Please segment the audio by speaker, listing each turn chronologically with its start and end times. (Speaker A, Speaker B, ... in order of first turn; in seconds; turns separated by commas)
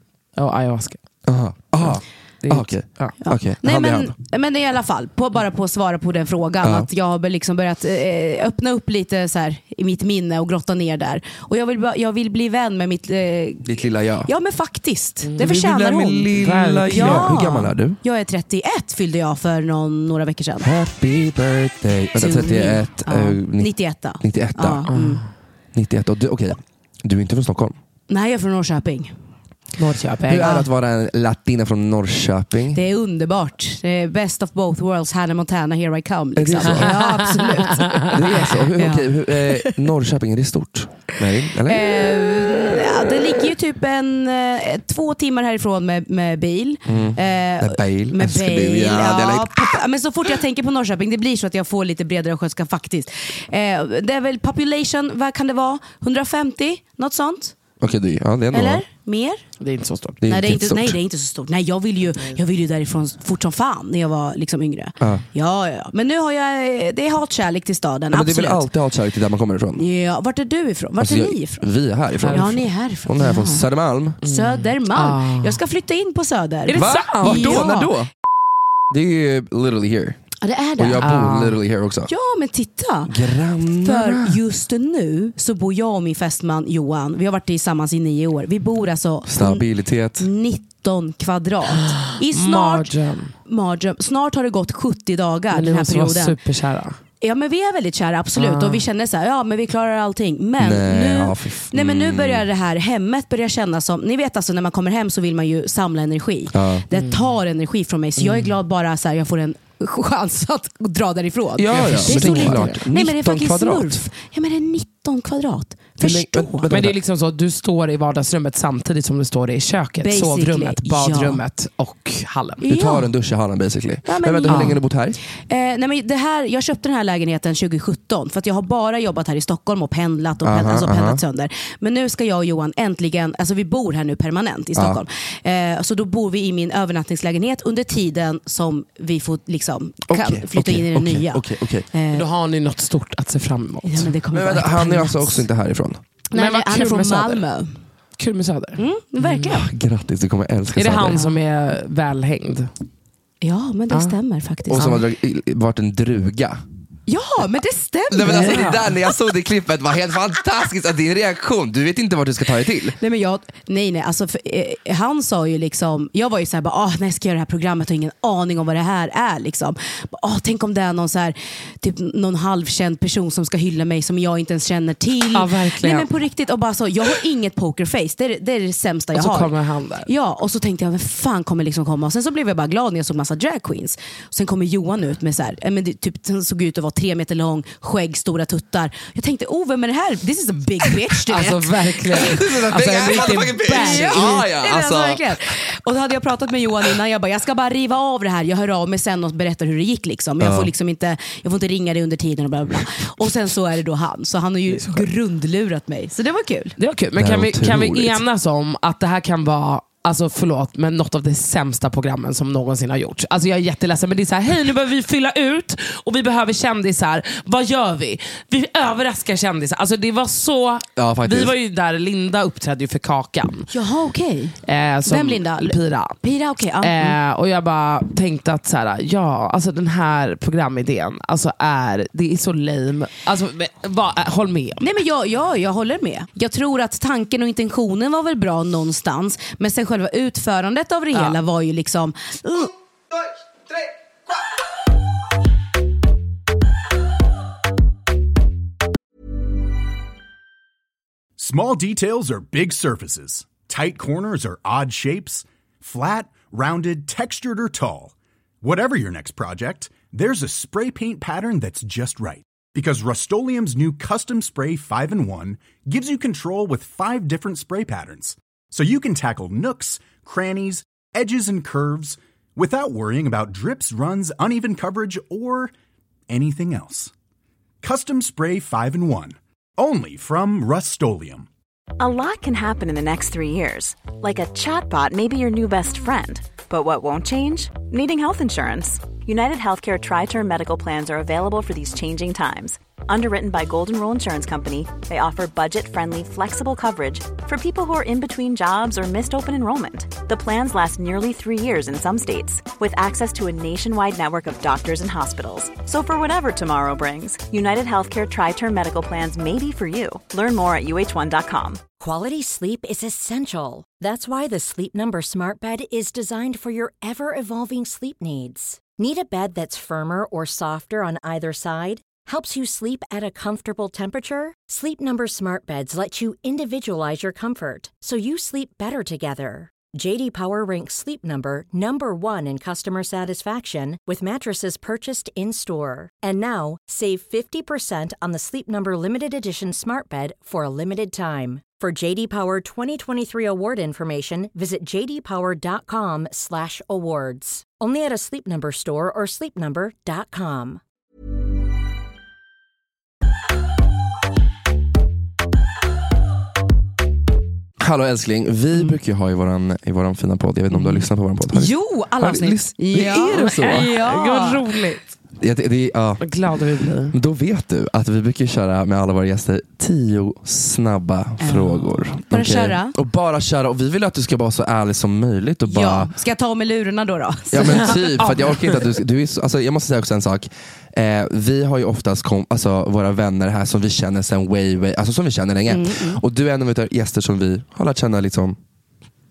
Speaker A: 0.3-1.0, Speaker B: 1.2-4.1, Speaker A: 2.4-3.1, Speaker C: 3.2-13.7, Speaker B: 6.6-6.9, Speaker B: 13.6-14.3, Speaker C: 14.3-16.3, Speaker A: 15.2-15.5, Speaker B: 15.4-18.0, Speaker A: 16.3-17.5, Speaker C: 16.9-20.7, Speaker B: 20.6-24.9, Speaker C: 22.2-25.2, Speaker A: 24.9-25.3, Speaker B: 25.7-27.8, Speaker C: 28.1-29.1, Speaker A: 29.8-30.5, Speaker B: 30.3-32.8, Speaker C: 30.4-30.7, Speaker C: 32.7-39.7, Speaker B: 36.4-37.0, Speaker A: 36.6-38.1, Speaker B: 38.1-42.0, Speaker C: 41.7-57.5, Speaker B: 46.9-49.8, Speaker B: 57.8-58.8, Speaker C: 58.5-59.4, Speaker A: 59.6-60.2, Speaker B: 60.2-61.0, Speaker C: 60.2-68.6, Speaker B: 68.1-69.8, Speaker C: 69.8-71.6, Speaker B: 71.0-74.2, Speaker A: 72.2-72.5, Speaker C: 72.3-73.6, Speaker A: 74.2-75.6, Speaker C: 74.2-77.9, Speaker A: 76.7-77.9, Speaker B: 76.7-78.1, Speaker B: 78.9-80.2, Speaker C: 80.4-81.1, Speaker B: 80.8-82.1, Speaker A: 81.0-81.6, Speaker C: 82.1-83.1, Speaker B: 83.1-84.4, Speaker C: 83.8-89.7, Speaker B: 89.3-90.3, Speaker C: 90.2-92.9, Speaker A: 91.7-93.3, Speaker C: 93.4-96.4, Speaker A: 95.5-97.0, Speaker C: 97.2-116.7, Speaker A: 98.3-98.8, Speaker B: 100.6-102.5, Speaker B: 106.5-106.8, Speaker A: 106.9-107.2, Speaker A: 108.2-108.5, Speaker B: 111.6-114.0, Speaker A: 111.7-112.8, Speaker B: 116.0-117.0, Speaker A: 116.7-122.6, Speaker C: 120.0-121.4, Speaker C: 122.6-123.1, Speaker B: 122.7-125.2, Speaker C: 124.0-124.8, Speaker A: 124.5-124.8, Speaker C: 125.5-142.2, Speaker B: 130.4-131.2, Speaker B: 134.8-135.0, Speaker B: 140.1-141.8, Speaker A: 142.1-144.1, Speaker C: 143.8-145.4, Speaker B: 144.3-146.0, Speaker C: 146.3-147.7, Speaker A: 146.3-147.4, Speaker A: 148.2-149.4, Speaker C: 148.8-149.7, Speaker B: 149.4-151.2, Speaker A: 150.7-152.7, Speaker C: 153.4-154.9, Speaker B: 154.7-156.6, Speaker C: 157.1-158.8, Speaker B: 158.1-162.9, Speaker A: 158.2-158.9, Speaker C: 163.0-179.5, Speaker A: 175.3-176.1, Speaker A: 179.1-180.1, Speaker C: 180.1-191.7, Speaker A: 191.3-194.3, Speaker B: 192.1-195.3, Speaker C: 193.1-206.8, Speaker B: 200.4-200.7, Speaker A: 206.8-223.7, Speaker B: 207.2-208.2, Speaker B: 221.0-221.5, Speaker C: 223.7-227.2, Speaker A: 224.7-226.2, Speaker A: 226.8-234.8, Speaker C: 234.8-242.7, Speaker A: 241.1-241.4, Speaker D: 251.4-275.7, Speaker D: 276.3-277.1, Speaker D: 277.8-281.5, Speaker E: 282.0-311.8, Speaker F: 312.0-350.8, Speaker B: 357.8-363.9, Speaker C: 360.7-364.6, Speaker A: 363.3-365.0, Speaker B: 365.4-366.3, Speaker A: 366.2-367.1, Speaker B: 367.1-376.1, Speaker C: 371.4-372.9, Speaker C: 375.7-378.0, Speaker B: 377.5-388.6, Speaker A: 377.6-378.9, Speaker C: 385.7-386.2